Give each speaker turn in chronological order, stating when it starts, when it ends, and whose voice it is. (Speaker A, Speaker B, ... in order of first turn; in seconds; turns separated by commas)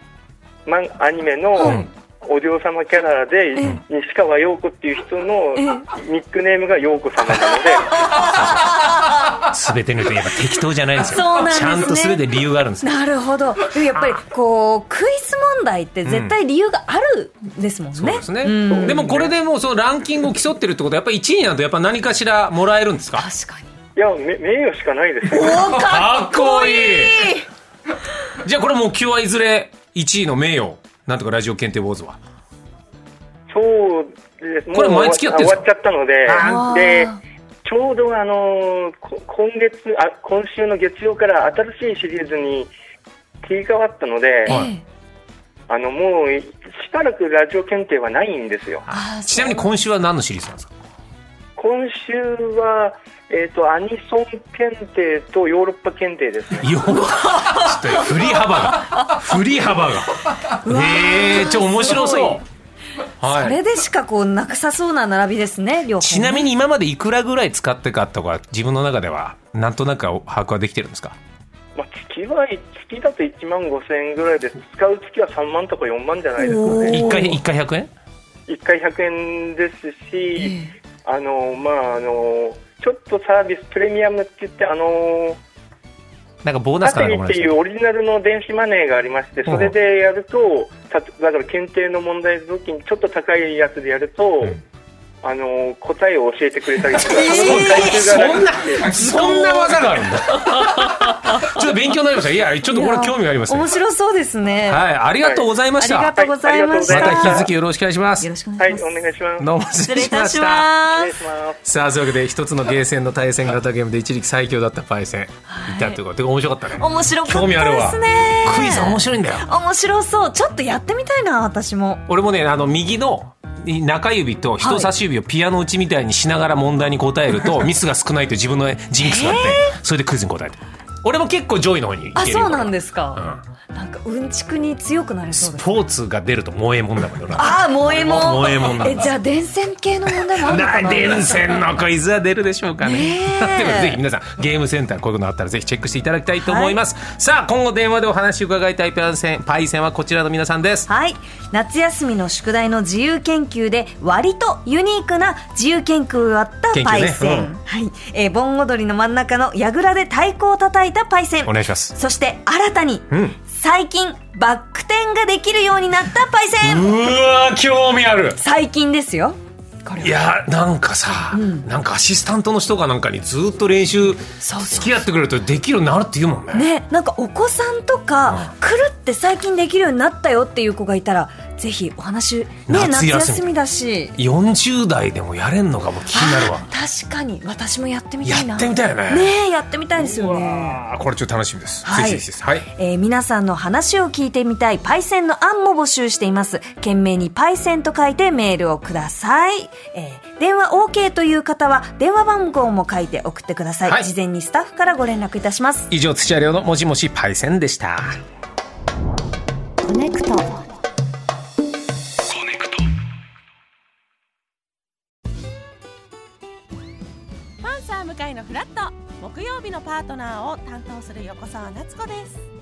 Speaker A: 0.7-8.3, Speaker B: 1.6-1.9, Speaker C: 5.5-5.9, Speaker C: 7.7-9.3, Speaker B: 8.2-8.7, Speaker B: 9.3-13.0, Speaker C: 11.0-12.2, Speaker C: 12.8-19.2, Speaker B: 16.0-16.4, Speaker B: 17.9-23.3, Speaker A: 18.7-19.3, Speaker C: 23.1-23.7, Speaker A: 23.9-25.6, Speaker C: 25.3-27.5, Speaker B: 25.4-27.3, Speaker B: 28.4-32.2, Speaker A: 33.5-37.1, Speaker B: 34.7-35.7, Speaker B: 36.3-36.7, Speaker C: 36.4-37.2, Speaker A: 37.6-42.7, Speaker A: 43.4-44.5, Speaker C: 44.5-44.8, Speaker A: 45.7-48.9, Speaker B: 48.9-50.7, Speaker C: 48.9-49.7, Speaker A: 51.5-56.7, Speaker B: 56.6-62.4, Speaker C: 57.3-59.1, Speaker C: 60.5-62.4, Speaker B: 63.2-63.6, Speaker C: 63.2-66.5, Speaker B: 66.0-71.2, Speaker A: 71.8-77.2, Speaker C: 76.4-77.4, Speaker B: 76.8-77.9, Speaker A: 78.5-85.4, Speaker C: 80.4-80.7, Speaker B: 86.4-87.5, Speaker A: 86.8-94.6, Speaker B: 89.5-89.7, Speaker A: 95.2-98.9, Speaker C: 97.0-101.6, Speaker B: 97.2-103.7, Speaker C: 102.7-104.8, Speaker B: 104.7-106.2, Speaker A: 105.2-105.5, Speaker C: 105.8-107.5, Speaker A: 106.0-107.5, Speaker B: 106.9-108.3, Speaker C: 108.2-108.8, Speaker A: 108.6-109.5, Speaker B: 109.4-110.7, Speaker C: 109.8-111.1, Speaker A: 110.9-111.6, Speaker B: 111.6-119.5, Speaker C: 115.5-116.0, Speaker C: 116.8-122.0, Speaker B: 122.1-133.4, Speaker C: 124.6-124.9, Speaker C: 129.0-129.7, Speaker C: 132.1-135.7, Speaker B: 135.3-139.1, Speaker C: 137.3-141.4, Speaker B: 140.3-150.9, Speaker C: 142.8-144.0, Speaker C: 146.4-146.8, Speaker C: 150.9-166.9, Speaker B: 156.7-157.5, Speaker B: 161.4-161.9, Speaker B: 163.1-163.3, Speaker B: 166.6-168.4, Speaker C: 168.4-170.2, Speaker B: 170.0-176.7, Speaker C: 171.3-171.7, Speaker C: 174.4-174.9, Speaker C: 176.5-184.2, Speaker B: 182.7-183.5, Speaker B: 184.2-186.7, Speaker C: 186.1-190.8, Speaker B: 188.2-189.3, Speaker B: 190.0-192.7, Speaker C: 191.8-205.9, Speaker B: 205.9-208.2, Speaker D: 209.8-210.6, Speaker D: 217.6-222.4